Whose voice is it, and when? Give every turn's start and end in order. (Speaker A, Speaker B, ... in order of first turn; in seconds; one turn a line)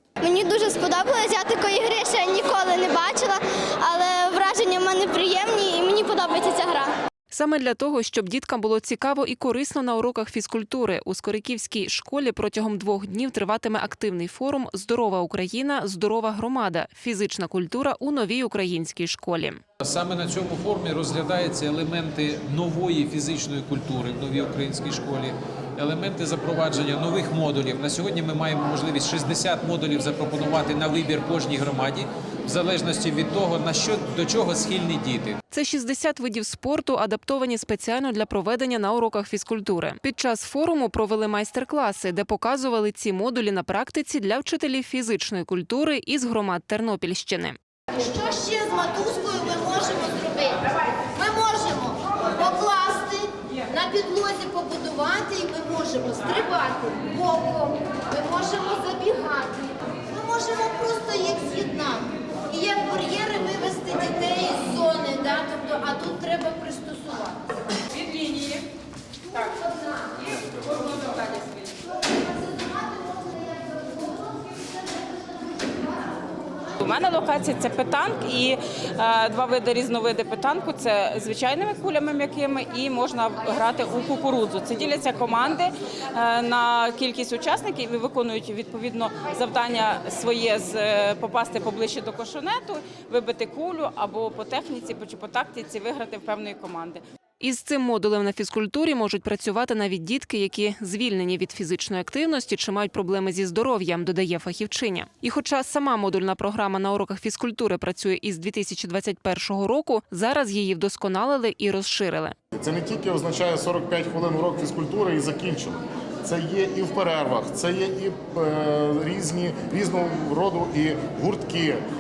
Speaker A: 0.2-6.9
Speaker B: 7.3-19.6
Speaker C: 19.8-35.4
Speaker B: 35.5-47.6
Speaker D: 47.9-67.4
Speaker E: 68.2-68.5
Speaker E: 76.8-97.0
Speaker B: 97.4-112.3
Speaker F: 112.5-121.8